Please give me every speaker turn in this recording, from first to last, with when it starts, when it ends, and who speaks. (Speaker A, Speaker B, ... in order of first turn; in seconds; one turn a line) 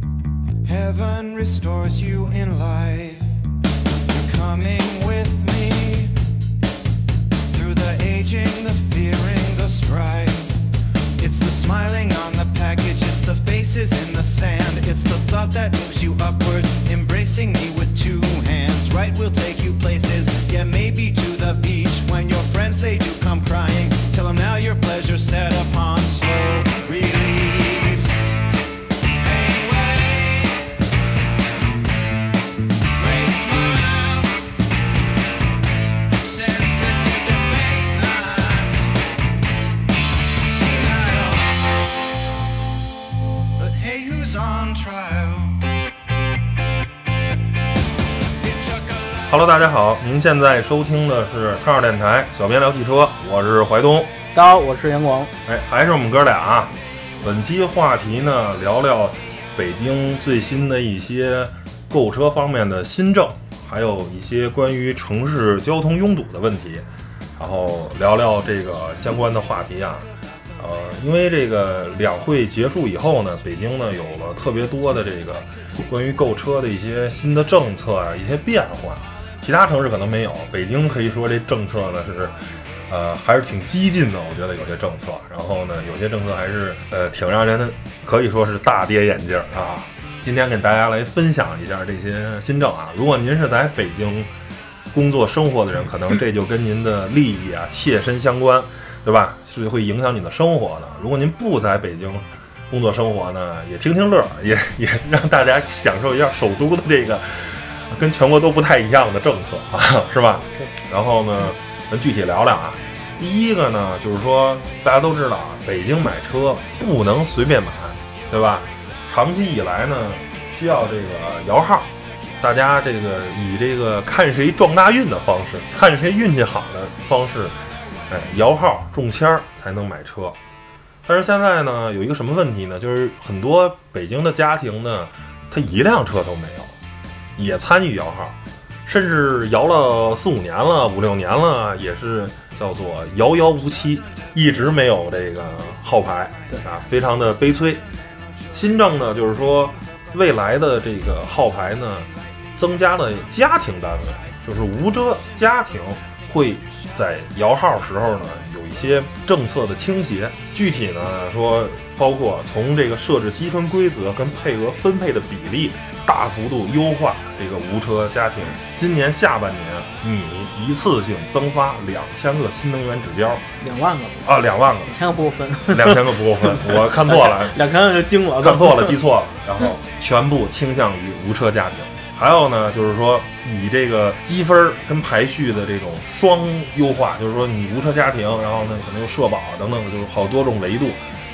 Speaker A: 0.7-3.4
Speaker A: 4.1-6.2
Speaker A: 7.5-10.6
Speaker A: 11.2-28.2
Speaker A: 29.2-30.7
Speaker A: 33.0-34.4
Speaker A: 36.1-38.9
Speaker A: 40.5-41.8
Speaker A: 43.6-45.6
Speaker A: 48.4-49.4
Speaker B: 49.3-54.1
Speaker C: 54.3-55.3
Speaker B: 55.5-66.8
Speaker B: 67.4-82.4
Speaker B: 82.9-94.3
Speaker B: 94.9-121.9
Speaker B: 122.4-127.6
Speaker B: 128.1-130.4
Speaker B: 131.1-136.7
Speaker B: 137.4-147.8
Speaker B: 148.5-173.4
Speaker C: 173.6-174.3
Speaker B: 174.2-175.0
Speaker C: 174.9-179.0
Speaker B: 175.7-177.6
Speaker B: 178.4-191.0